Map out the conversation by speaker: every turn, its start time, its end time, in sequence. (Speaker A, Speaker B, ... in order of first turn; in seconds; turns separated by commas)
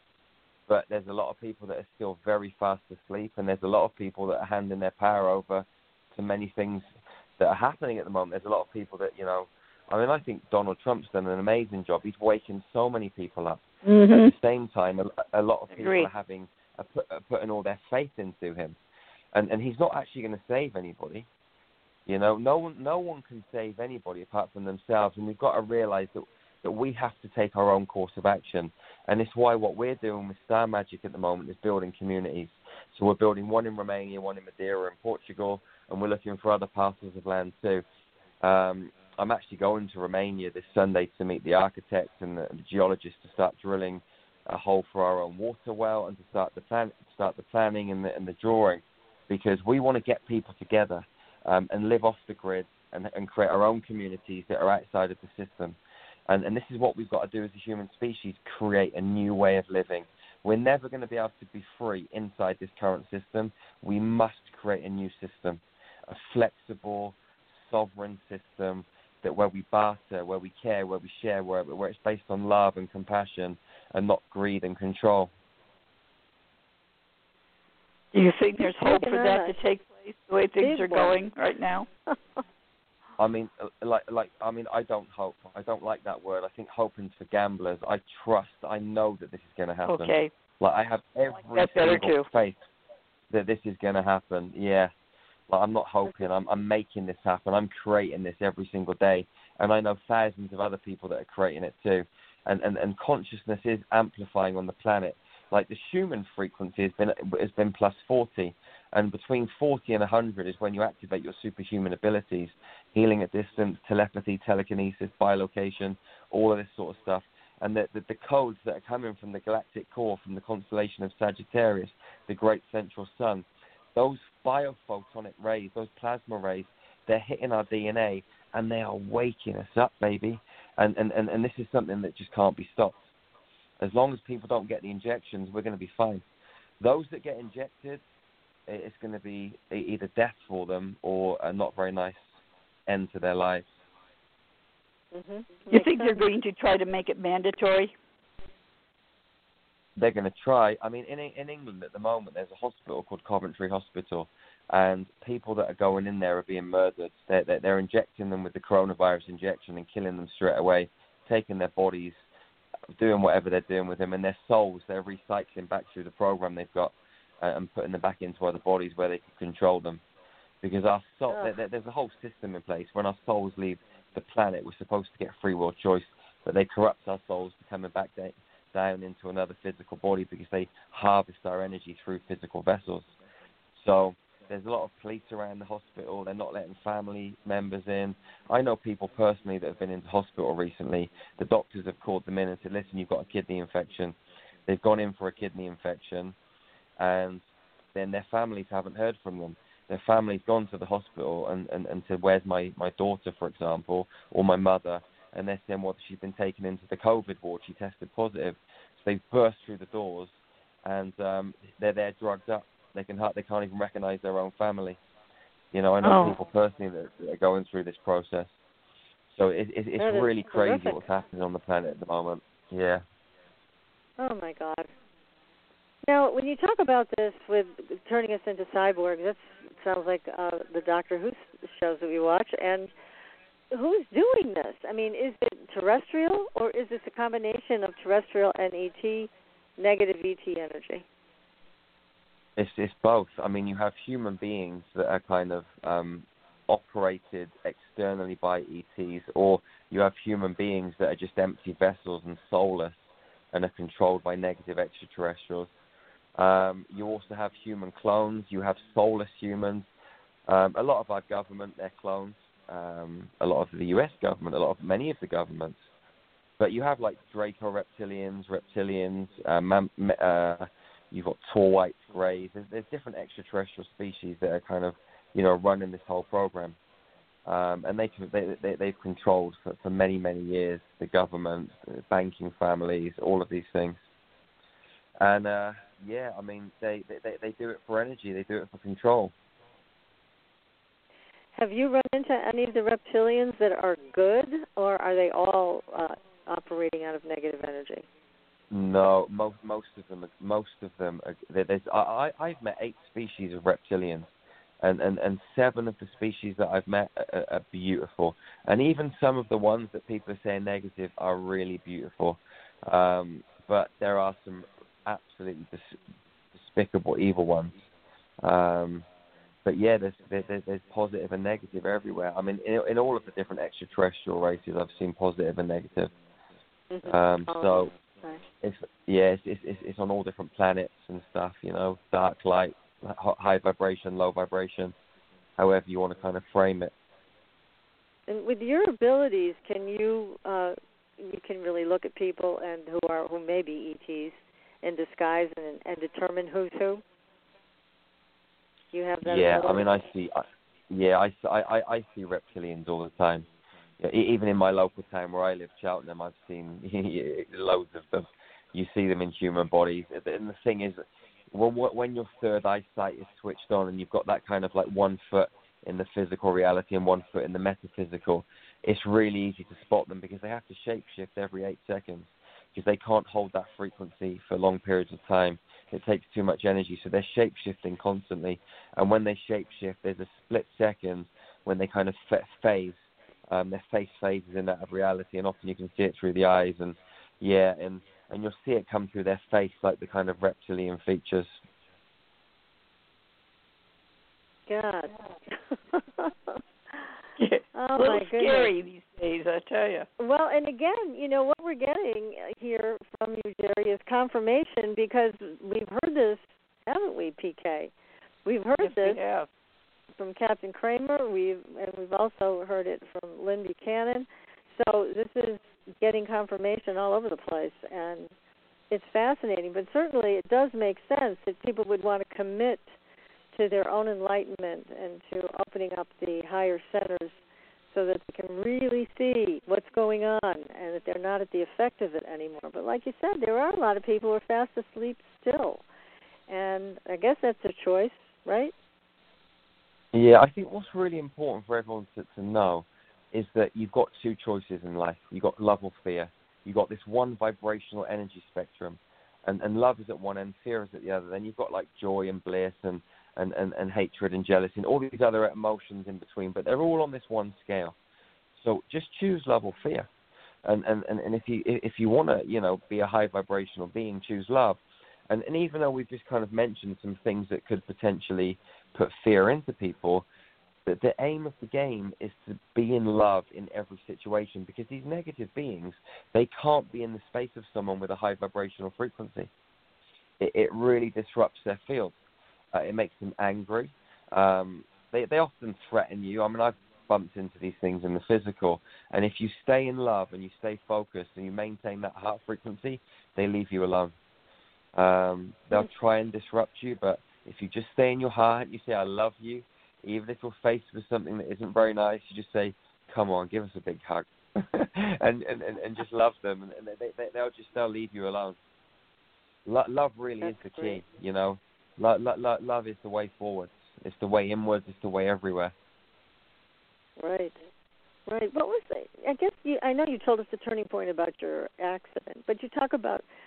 Speaker A: 0.7-13.6, Speaker B: 13.8-14.3, Speaker A: 14.2-18.8, Speaker B: 15.7-16.1, Speaker A: 19.3-21.3, Speaker A: 22.1-37.8, Speaker A: 38.4-55.8, Speaker A: 56.3-75.3, Speaker B: 78.1-81.9, Speaker C: 78.6-79.5, Speaker C: 80.6-81.2, Speaker C: 82.1-82.4, Speaker A: 83.2-92.6, Speaker B: 89.9-90.3, Speaker B: 91.5-92.3, Speaker A: 93.3-94.9, Speaker A: 95.5-133.1, Speaker A: 133.8-136.2, Speaker A: 136.8-138.0, Speaker A: 138.7-142.2, Speaker A: 142.9-143.7, Speaker C: 145.1-146.2, Speaker B: 145.7-147.9, Speaker A: 149.9-162.2, Speaker A: 162.9-170.0, Speaker A: 170.6-183.1, Speaker A: 183.8-196.3, Speaker A: 197.0-210.3, Speaker A: 210.8-215.0, Speaker A: 215.7-218.5, Speaker B: 216.0-216.3, Speaker A: 219.3-223.0, Speaker C: 220.0-221.0, Speaker C: 224.2-224.9, Speaker C: 226.1-232.9, Speaker C: 233.7-241.0, Speaker A: 242.6-253.0, Speaker A: 253.5-255.7, Speaker A: 256.4-259.9, Speaker A: 260.5-265.8, Speaker A: 266.6-276.8, Speaker A: 277.4-284.0, Speaker A: 285.2-289.3, Speaker C: 291.5-298.1, Speaker A: 298.7-316.0, Speaker A: 316.5-317.8, Speaker A: 318.4-319.1, Speaker A: 319.6-326.1, Speaker C: 326.9-328.4, Speaker A: 327.0-327.9, Speaker A: 328.6-334.9, Speaker A: 335.6-336.9, Speaker C: 338.3-347.0, Speaker C: 348.9-350.0, Speaker A: 349.2-353.5, Speaker A: 354.0-391.6, Speaker C: 394.7-396.6, Speaker B: 397.4-400.1, Speaker C: 397.7-398.7, Speaker C: 400.2-407.9, Speaker C: 408.4-409.2, Speaker B: 408.8-409.4, Speaker C: 410.2-418.3, Speaker C: 418.9-422.9, Speaker C: 423.5-427.4, Speaker C: 427.9-435.8, Speaker C: 436.5-438.7, Speaker A: 440.1-457.9, Speaker A: 458.6-460.1, Speaker A: 460.6-470.2, Speaker A: 470.9-479.5, Speaker A: 480.4-482.1, Speaker A: 482.7-494.1, Speaker A: 494.9-508.6, Speaker A: 509.6-515.7, Speaker C: 510.4-511.0, Speaker C: 517.2-517.5, Speaker C: 518.3-523.2